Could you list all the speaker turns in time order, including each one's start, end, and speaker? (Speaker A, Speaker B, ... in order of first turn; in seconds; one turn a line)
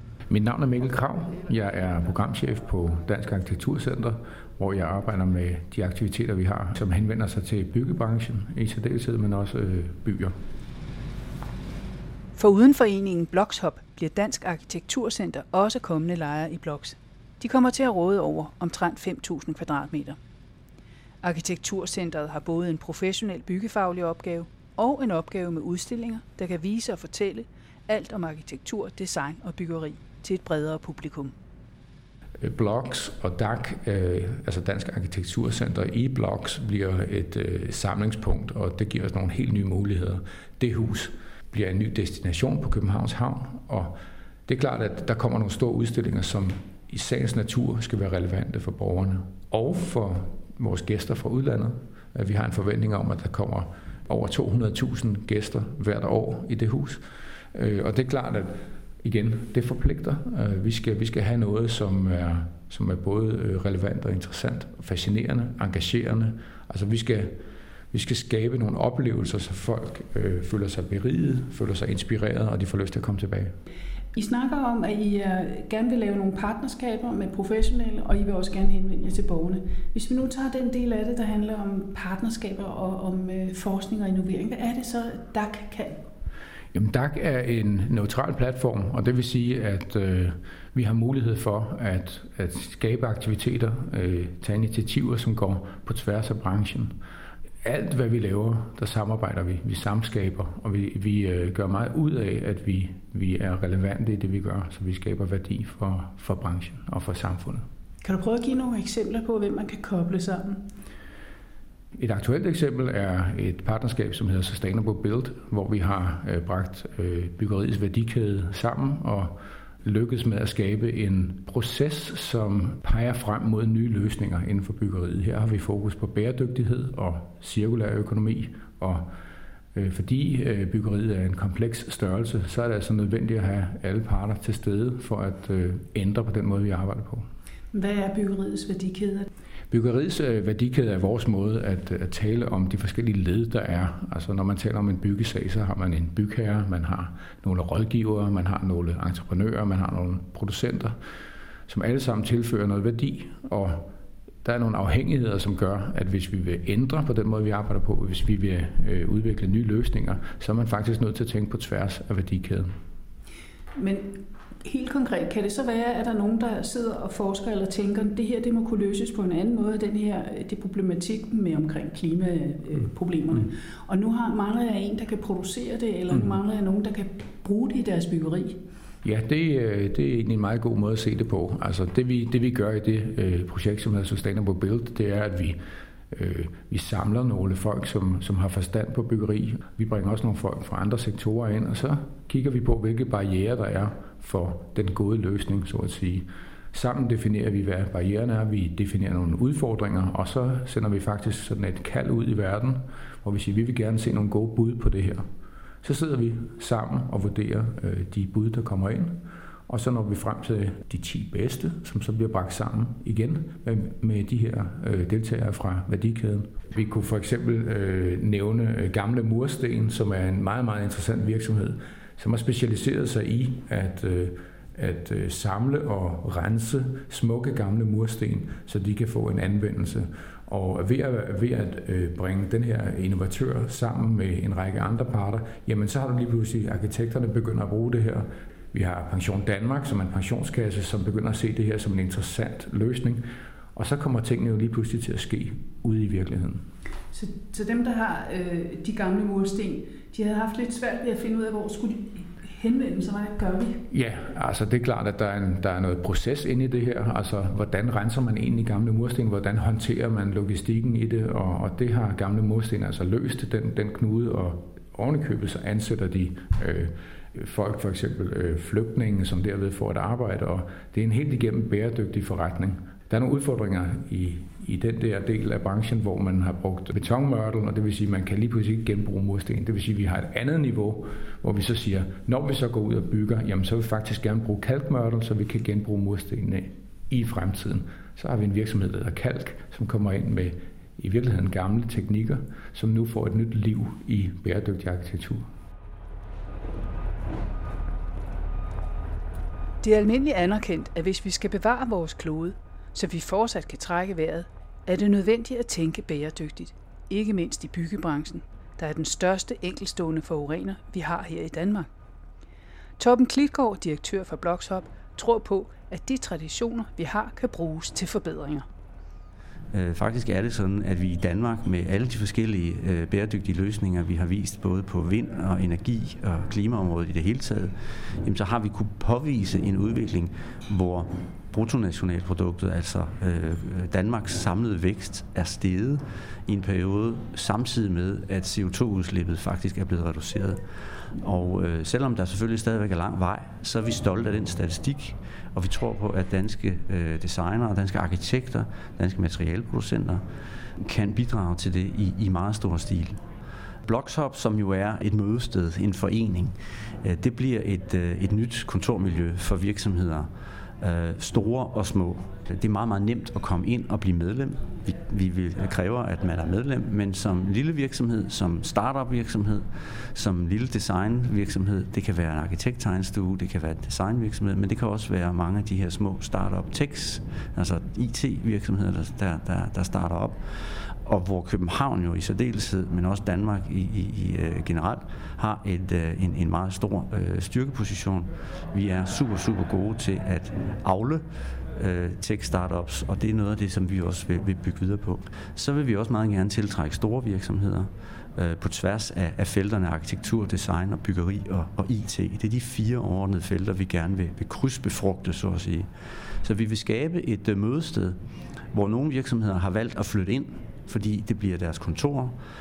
Speaker A: 0.3-10.3
Speaker B: 12.4-20.2
Speaker B: 21.2-31.3
Speaker A: 32.4-44.0
Speaker A: 44.5-67.4
Speaker A: 67.9-73.6
Speaker B: 74.2-86.0
Speaker A: 86.7-97.0
Speaker A: 97.6-107.7
Speaker B: 108.0-110.7
Speaker A: 112.0-129.1
Speaker A: 129.7-137.3
Speaker B: 137.7-139.3
Speaker A: 139.7-151.0
Speaker A: 151.7-153.9
Speaker A: 154.4-162.7
Speaker B: 163.8-178.6
Speaker A: 179.0-185.6
Speaker A: 186.1-205.3
Speaker A: 205.8-246.6
Speaker B: 247.1-253.8
Speaker A: 253.9-295.5
Speaker B: 299.8-311.9
Speaker B: 313.0-318.7
Speaker C: 319.7-340.6
Speaker C: 341.2-350.2
Speaker C: 350.8-353.2
Speaker C: 353.9-360.3
Speaker C: 360.8-405.9
Speaker C: 406.4-408.2
Speaker C: 408.7-412.4